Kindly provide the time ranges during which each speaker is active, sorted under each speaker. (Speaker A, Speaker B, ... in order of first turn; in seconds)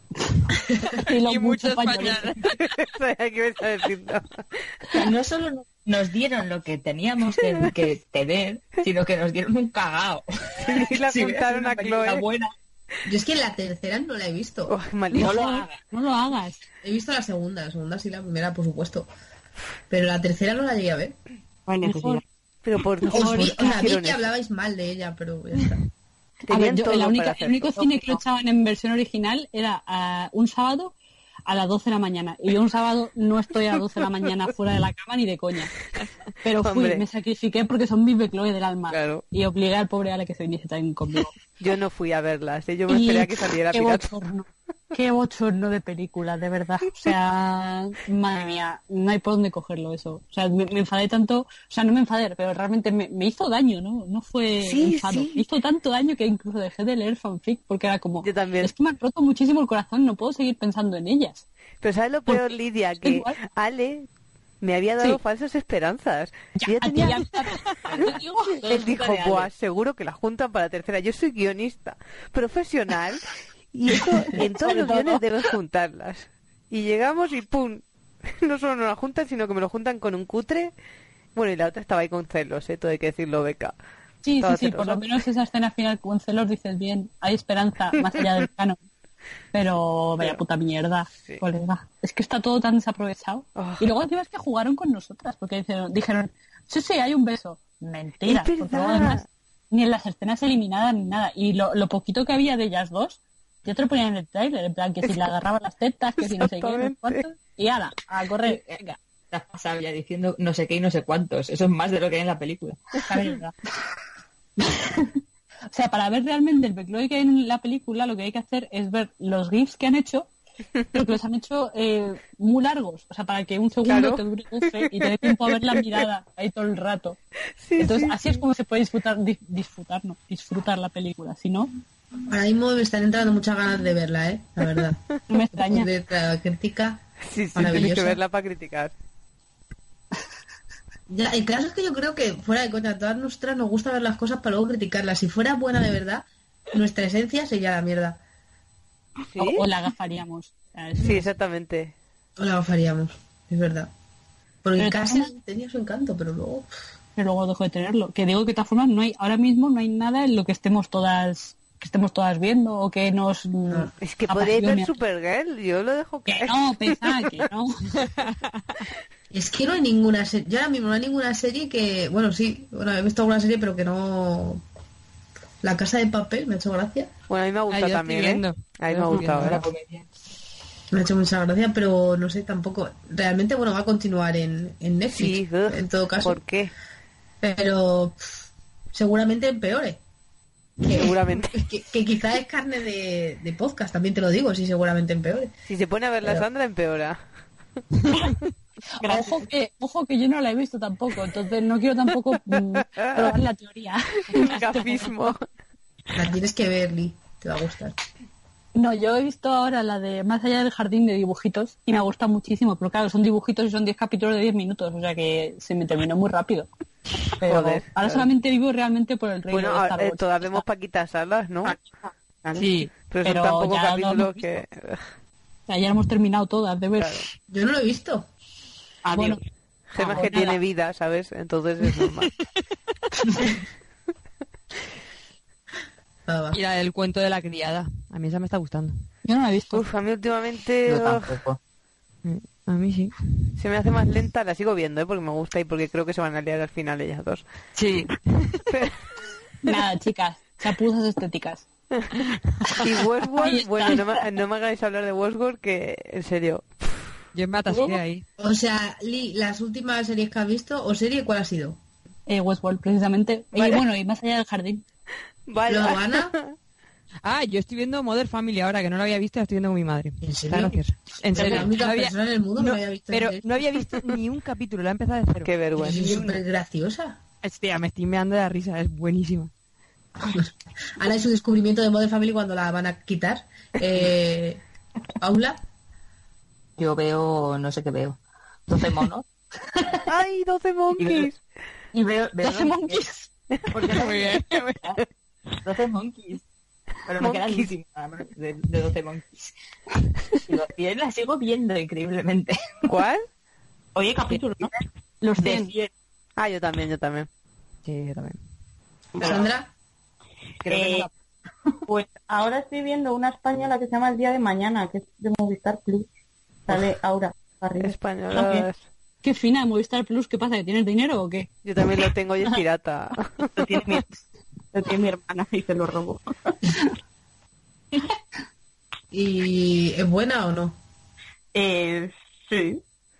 Speaker A: 1.0-2.4, 15.1-16.6, 21.8-22.2, 23.1-23.9, 26.5-30.9, 31.5-35.7, 36.4-41.3, 42.9-61.5, 63.0-63.4, 66.6-68.6, 74.3-75.2, 84.2-88.8, 89.5-109.0, 115.7-120.3, 120.9-127.2, 127.8-131.7, 135.3-135.9, 149.4-151.3, 154.8-155.3, 157.2-164.9, 166.3-167.9, 199.0-205.3, 208.8-216.7, 217.4-220.6, 223.2-224.6, 225.7-227.2, 230.0-230.6, 239.2-239.8, 249.6-251.7, 252.7-254.2, 262.3-264.9, 292.4-293.3, 305.2-305.7, 319.2-321.5
Speaker B: 1.2-2.6, 168.0-168.6, 177.7-179.7, 222.6-222.9, 236.5-239.0, 242.2-243.2, 257.3-258.2, 267.2-276.4, 277.4-279.5, 293.9-294.8, 307.9-308.4
Speaker C: 2.6-4.4, 10.6-12.2, 14.7-15.4, 22.6-24.3, 26.5-28.2, 36.6-37.0, 38.9-39.2, 41.6-44.1, 54.6-55.4, 58.2-58.7, 61.8-64.1, 64.6-67.3, 68.7-80.7, 81.3-83.8, 84.4-85.1, 93.6-93.9, 98.3-99.2, 106.2-107.2, 123.8-125.8, 127.6-128.4, 137.2-138.9, 149.3-149.7, 151.0-151.9, 164.0-167.3, 177.3-179.6, 185.1-186.7, 190.9-191.6, 195.7-197.2, 204.3-205.4, 217.4-218.3, 219.5-221.8, 223.1-225.0, 227.0-227.2, 229.9-232.3, 239.7-241.4, 243.6-247.4, 248.7-249.0, 252.8-257.1, 265.5-266.5, 275.4-276.2, 290.1-291.4, 297.2-297.7, 302.9-303.2, 306.4-307.3, 317.8-318.8, 321.6-323.6
Speaker D: 4.9-12.5, 15.2-15.8, 67.9-69.5, 108.4-113.3, 179.1-180.1, 240.9-241.6, 247.8-248.1, 286.8-289.3, 290.9-291.3, 291.9-293.0, 293.7-294.9, 295.6-296.4, 297.1-299.5, 300.5-303.0, 305.4-305.9, 310.6-311.1
Speaker E: 13.1-14.7, 16.8-19.1, 19.9-21.2, 23.1-25.8, 132.3-135.0, 135.5-137.0, 137.6-138.2, 141.1-148.2, 152.4-153.9, 154.6-156.7, 169.3-174.6, 175.6-177.1, 180.9-186.4, 187.4-188.3, 188.9-190.0, 190.8-195.5, 206.1-208.0, 227.5-228.3, 236.3-236.6, 258.4-261.8, 265.7-266.4, 270.2-270.8, 271.3-273.6, 275.8-277.2, 280.2-284.6, 285.2-285.6, 309.2-309.7, 329.1-330.8
Speaker F: 21.7-22.2, 199.0-199.5, 221.6-222.7, 229.1-229.4, 303.9-304.7, 309.2-309.5, 310.7-311.1, 311.9-316.1, 316.7-318.7, 323.6-324.1, 324.7-326.6, 331.5-332.8